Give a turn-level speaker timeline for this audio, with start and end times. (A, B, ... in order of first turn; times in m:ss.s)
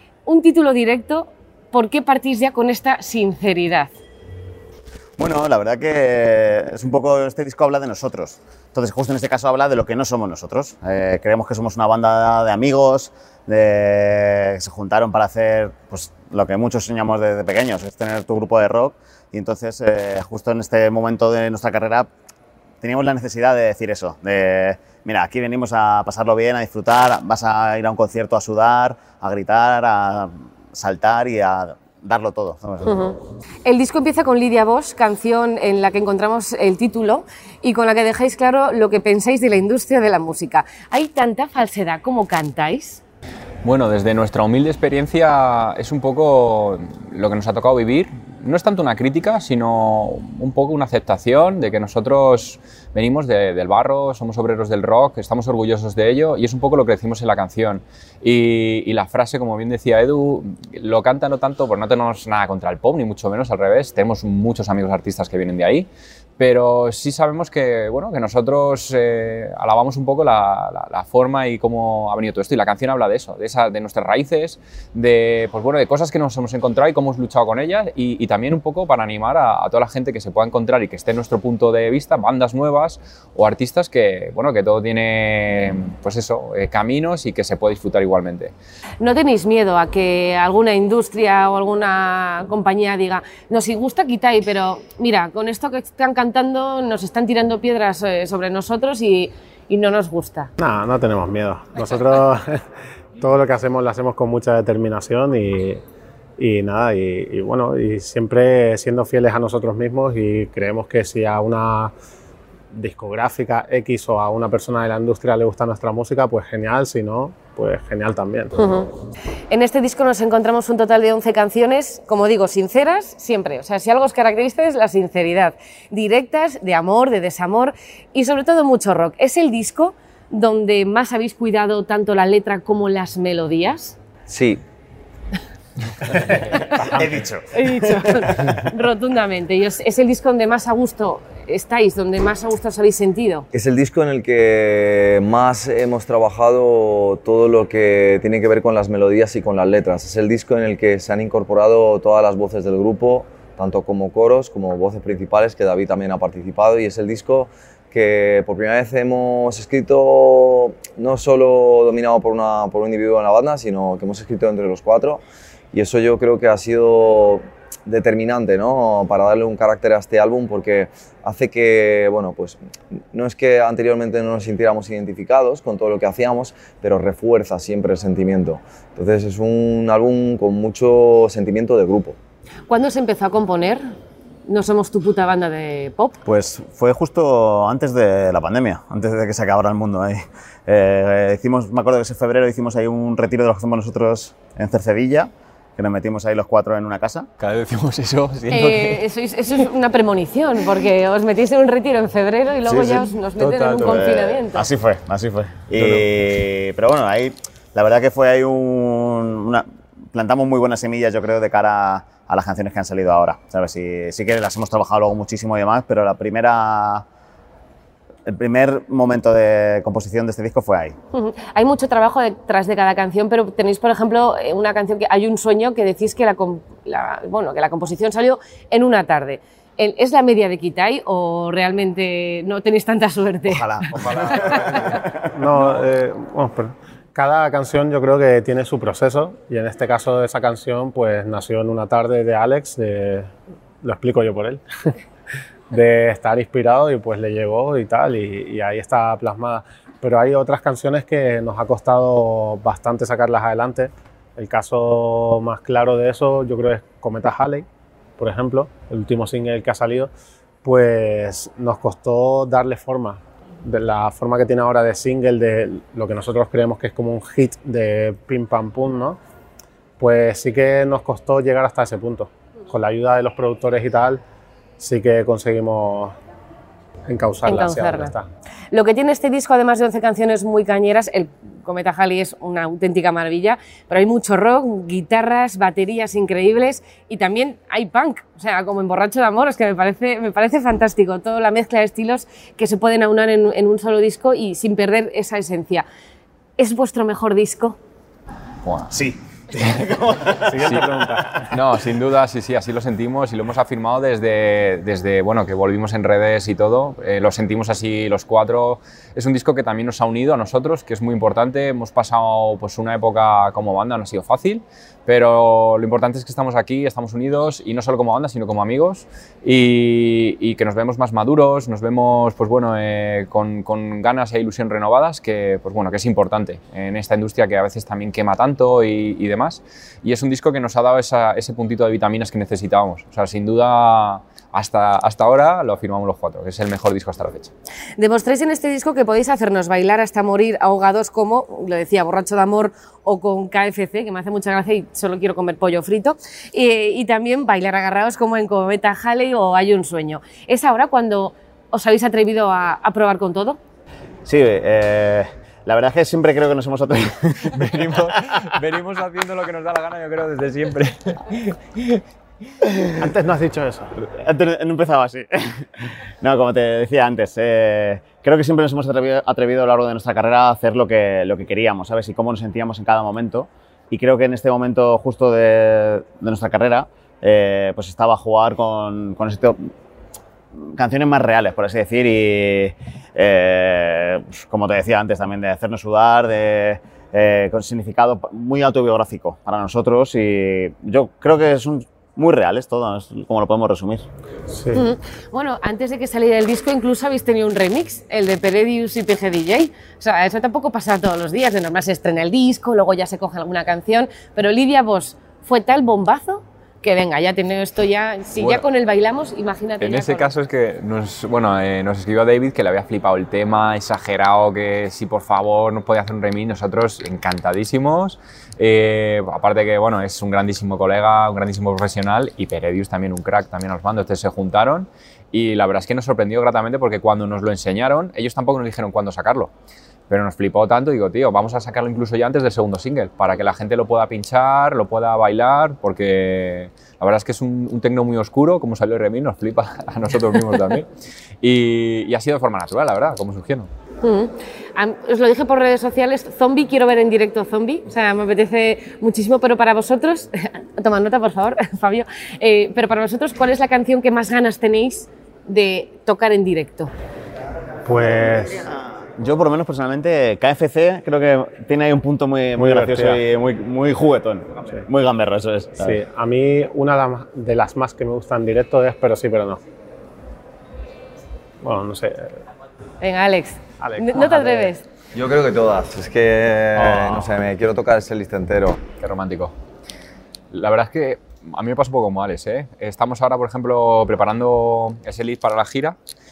0:00.2-0:03.9 A
0:05.2-0:22.1 B
0:22.8-0:33.1 B
0:32.8-0:43.0 A
0:43.6-1:28.5 C
1:29.0-1:40.5 A
1:40.6-1:42.6 D
1:43.2-1:45.8 D
1:46.4-1:51.9 D
1:52.7-1:58.8 D
1:58.6-1:58.9 A
1:59.5-2:14.0 A
2:14.3-2:14.6 E
2:16.3-2:16.8 A
2:16.8-2:17.4 B
2:17.5-2:23.5 A
2:23.5-2:52.6 E
2:53.1-3:02.2 E
3:02.7-3:03.8 A
3:04.5-3:06.2 A
3:06.2-3:17.3 B
3:17.4-3:19.0 C
3:18.5-3:24.7 A
3:22.6-3:23.1 B
3:23.4-3:24.0 C
3:23.7-3:37.0 B
3:25.7-3:26.1 C
3:38.2-3:40.9 B
3:41.1-3:53.8 A
3:53.5-3:55.3 B
3:54.0-3:55.0 E
3:55.3-4:03.3 D
4:03.8-4:04.6 D
4:05.7-4:17.6 D
4:18.2-4:20.1 D
4:20.6-4:29.2 D
4:30.0-4:34.2 D
4:34.8-4:36.1 D
4:37.1-4:38.3 D
4:37.4-4:38.1 A
4:38.7-4:55.8 A
4:56.6-4:57.8 A
4:58.6-4:58.9 C
4:58.9-5:00.6 B
5:00.4-5:01.5 D
5:00.6-5:00.9 C
5:01.5-5:37.5 C
5:38.0-5:53.6 A
5:54.2-5:58.0 B
5:57.5-6:02.0 C
6:03.0-6:03.9 D
6:04.0-6:19.6 B
6:20.5-6:34.1 B
6:34.5-6:34.8 D
6:34.7-6:50.3 A
6:48.3-6:48.6 C
6:49.8-7:09.5 C
7:10.1-7:20.9 C
7:21.4-7:23.7 C
7:24.0-7:36.9 A
7:37.8-7:38.7 D
7:39.2-7:46.0 B
7:42.6-7:43.2 D
7:45.8-7:49.6 D
7:51.6-7:52.4 D
7:53.0-7:54.8 A
7:53.8-7:54.7 D
7:55.1-7:58.8 E
7:56.8-7:57.1 D
7:59.0-7:59.5 C
8:00.5-8:06.0 C